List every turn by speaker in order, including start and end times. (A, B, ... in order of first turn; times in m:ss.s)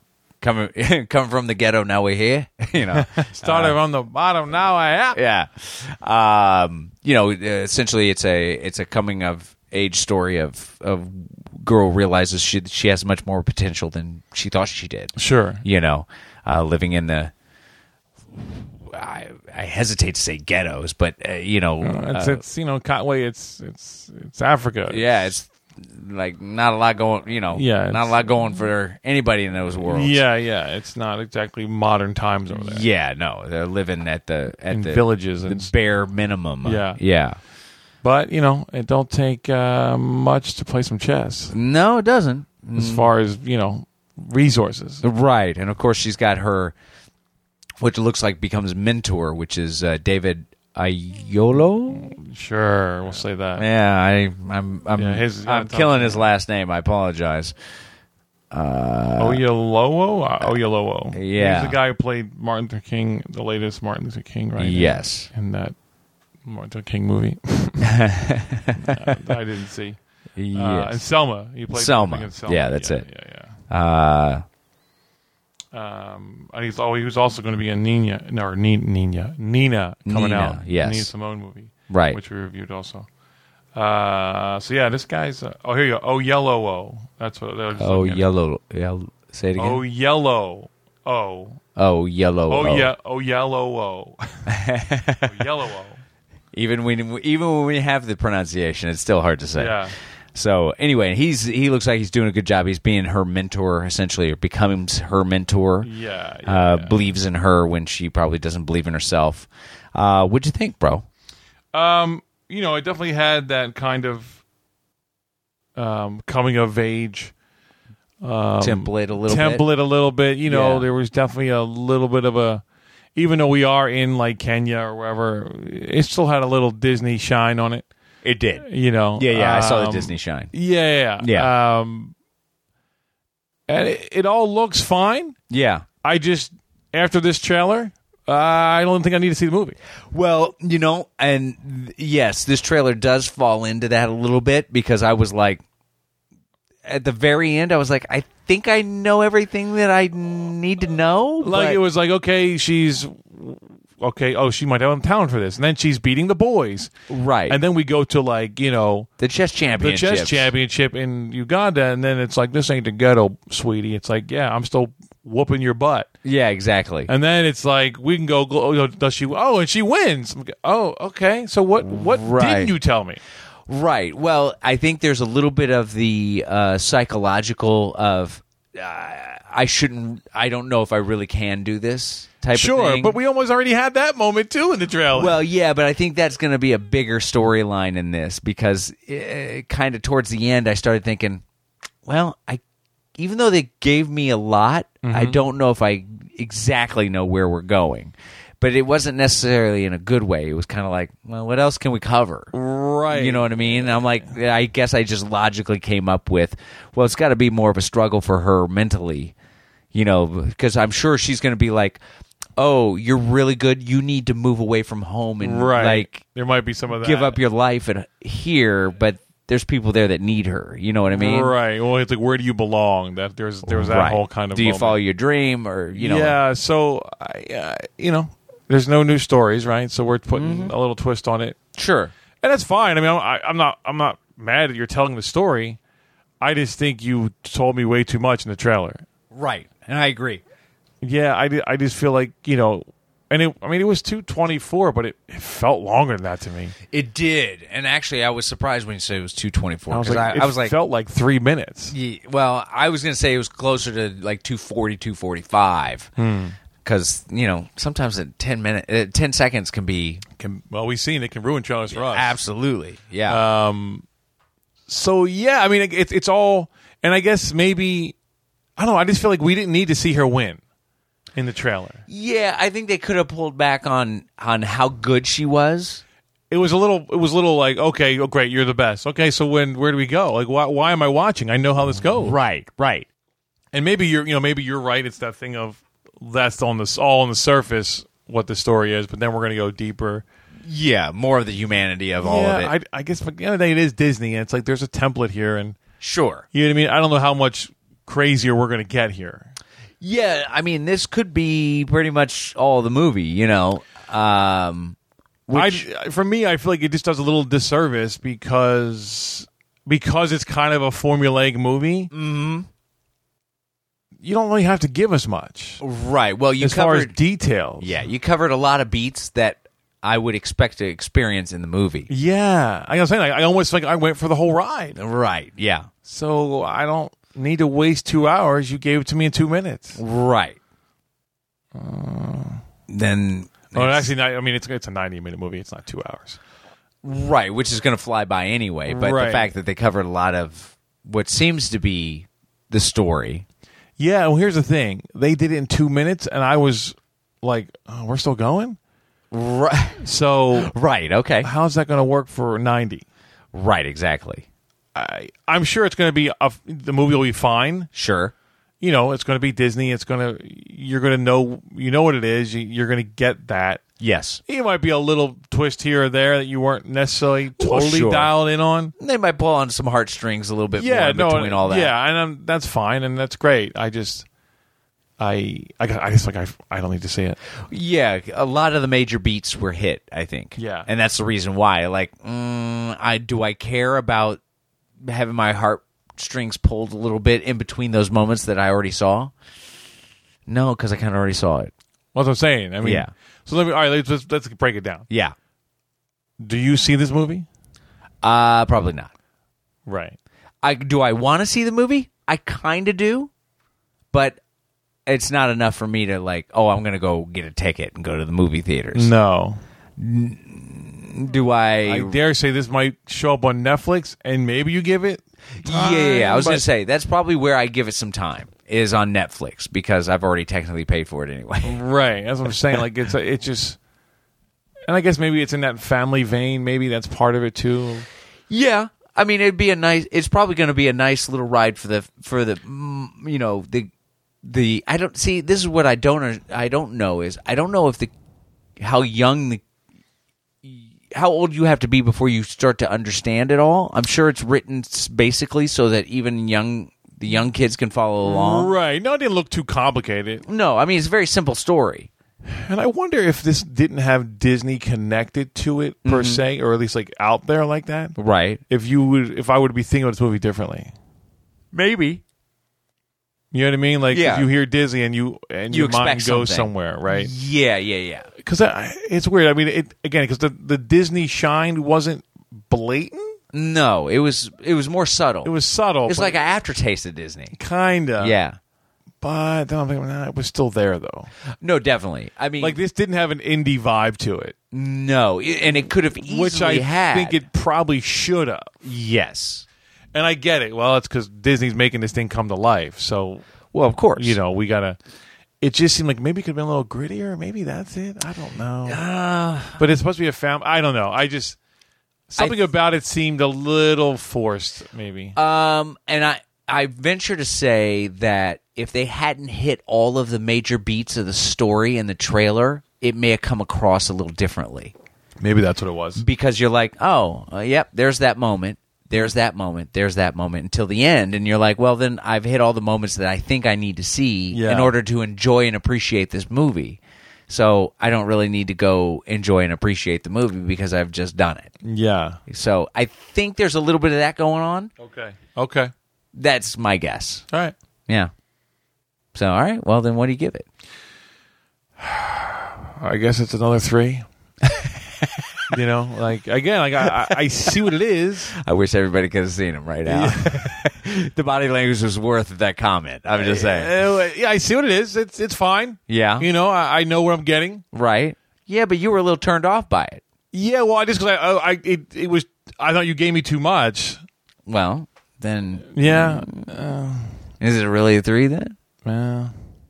0:00.4-0:03.8 A
0:02.9-0:05.2 B
0:05.1-0:17.3 A
0:15.2-0:15.6 B
0:18.3-0:22.4 A
0:21.8-0:25.2 B
0:24.9-0:30.2 A
0:27.5-0:28.3 B
0:29.8-0:32.9 B
0:32.5-0:37.4 A
0:34.7-0:35.7 B
0:36.6-0:37.0 B
0:38.0-0:41.5 B
0:41.5-0:43.1 A
0:42.8-0:45.0 B
0:45.0-0:46.7 A
0:47.8-0:52.1 A
0:51.9-0:53.6 B
0:53.6-0:57.5 A
0:55.0-0:56.2 B
0:58.5-0:59.4 A
0:59.2-1:05.7 B
1:01.1-1:01.8 A
1:04.6-1:05.3 A
1:06.4-1:08.0 B
1:07.8-1:09.2 A
1:08.8-1:10.0 B
1:10.4-1:11.0 A
1:10.5-1:13.5 B
1:11.7-1:13.1 A
1:13.7-1:14.4 A
1:15.7-1:23.1 B
1:20.0-1:21.1 A
1:21.9-1:22.2 A
1:23.7-1:28.3 B
1:27.8-1:29.8 A
1:29.6-1:31.6 B
1:31.8-1:32.9 A
1:32.5-1:34.2 B
1:34.5-1:35.4 A
1:35.2-1:36.0 B
1:36.5-1:45.9 A
1:39.6-1:39.9 B
1:45.8-1:47.0 B
1:46.4-1:51.0 A
1:51.7-1:54.4 B
1:55.8-1:57.3 B
1:58.2-2:02.6 B
1:58.6-1:59.6 A
2:00.4-2:00.8 A
2:03.1-2:07.9 B
2:08.2-2:10.5 A
2:08.6-2:12.1 B
2:11.2-2:11.5 A
2:13.7-2:15.4 B
2:15.5-2:15.8 A
2:16.0-2:19.8 B
2:20.1-2:25.6 A
2:26.8-2:31.8 A
2:31.4-2:36.9 B
2:37.1-2:37.6 A
2:37.5-2:39.1 B
2:39.2-2:40.5 A
2:39.8-2:46.1 B
2:46.2-2:47.1 A
2:47.1-2:53.2 B
2:51.8-2:52.7 A
2:53.7-3:03.1 A
3:02.5-3:05.4 B
3:05.1-3:11.4 A
3:12.0-3:12.6 A
3:13.2-3:22.5 A
3:15.0-3:15.4 B
3:22.5-3:24.3 B
3:23.1-3:29.3 A
3:29.9-3:32.0 A
3:32.6-3:36.2 A
3:35.4-3:37.4 B
3:36.9-3:41.5 A
3:41.1-3:45.0 B
3:43.6-3:46.4 A
3:45.9-3:51.6 B
3:50.3-3:50.7 A
3:51.7-3:52.1 A
3:52.4-3:55.8 B
3:56.4-3:59.0 B
3:59.3-4:00.4 A
4:01.0-4:06.8 B
4:06.9-4:10.7 A
4:09.9-4:11.9 B
4:11.9-4:16.1 A
4:16.2-4:16.6 B
4:16.8-4:20.2 A
4:20.4-4:22.3 B
4:21.9-4:23.4 A
4:23.3-4:24.0 B
4:24.9-4:28.1 B
4:28.8-4:30.6 B
4:31.3-4:32.0 B
4:32.1-4:36.0 A
4:36.5-4:42.4 B
4:42.2-4:43.1 A
4:43.7-4:50.2 B
4:50.6-4:52.7 A
4:52.2-4:55.8 B
4:56.0-4:56.4 A
4:56.5-4:59.5 B
5:00.0-5:05.0 A
5:05.5-5:05.8 A
5:05.5-5:12.1 B
5:12.1-5:12.7 A
5:14.2-5:15.8 B
5:15.8-5:17.2 A
5:16.6-5:17.9 B
5:17.8-5:22.1 A
5:22.1-5:25.0 B
5:24.9-5:25.9 A
5:26.0-5:30.0 B
5:30.0-5:30.6 A
5:31.7-5:32.6 B
5:32.9-5:34.1 A
5:33.7-5:36.4 B
5:37.0-5:43.4 A
5:38.9-5:39.5 B
5:44.0-5:48.8 B
5:49.3-5:50.0 A
5:50.0-5:50.7 B
5:50.5-5:51.5 A
5:51.4-5:53.0 B
5:53.5-5:54.4 A
5:54.9-5:57.9 B
5:57.9-5:58.3 A
5:58.8-6:03.8 B
6:04.0-6:04.4 A
6:04.4-6:08.9 B
6:07.6-6:08.3 A
6:09.0-6:11.9 A
6:10.7-6:14.2 B
6:15.2-6:17.4 B
6:17.7-6:24.4 A
6:20.6-6:20.9 B
6:25.0-6:29.3 A
6:30.5-6:31.7 A
6:32.1-6:35.1 B
6:32.8-6:33.1 A
6:35.1-6:35.3 A
6:36.4-6:37.5 B
6:38.2-6:39.1 A
6:39.8-6:40.2 B
6:40.6-6:43.3 A
6:44.1-6:44.4 A
6:45.0-6:49.1 A
6:48.9-6:49.6 B
6:50.0-6:52.2 A
6:51.8-6:56.6 B
6:55.6-7:01.8 A
7:01.6-7:03.8 B
7:04.8-7:08.0 B
7:08.5-7:13.9 A
7:14.4-7:18.1 A
7:18.8-7:19.6 A
7:20.6-7:28.7 A
7:28.2-7:30.4 B
7:30.4-7:32.1 A
7:32.4-7:38.2 B
7:36.0-7:36.4 A
7:38.2-7:38.6 A
7:38.7-7:40.9 B
7:41.7-7:42.2 A
7:43.5-7:47.3 B
7:44.1-7:44.5 A
7:45.7-7:48.3 A
7:48.4-7:53.3 B
7:53.5-7:55.5 A
7:55.4-7:56.4 B
7:56.0-7:57.6 A
7:57.5-7:58.4 B
7:58.2-7:58.6 A
7:59.2-8:01.3 B
8:01.6-8:02.8 A
8:02.6-8:04.5 B
8:04.7-8:07.4 A
8:06.2-8:08.7 B
8:08.8-8:09.6 A
8:10.1-8:13.4 B
8:13.7-8:14.4 A
8:14.1-8:15.0 B
8:15.6-8:19.0 B
8:18.8-8:19.8 A
8:19.8-8:21.6 B
8:22.3-8:25.4 B
8:25.4-8:34.9 A
8:35.4-8:36.2 B
8:36.2-8:51.7 A
8:44.5-8:44.9 B
8:51.8-8:52.4 B
8:52.5-8:54.9 A
8:55.0-8:55.9 B
8:56.3-8:57.4 A
8:59.3-9:00.7 A
9:02.0-9:04.2 B
9:05.7-9:08.5 B
9:08.5-9:13.9 A
9:10.0-9:10.7 B
9:13.3-9:17.8 B
9:16.1-9:16.5 A
9:17.9-9:20.2 A
9:20.5-9:24.2 B
9:24.7-9:26.7 A
9:25.9-9:27.3 B
9:27.6-9:28.7 A
9:29.0-9:29.5 B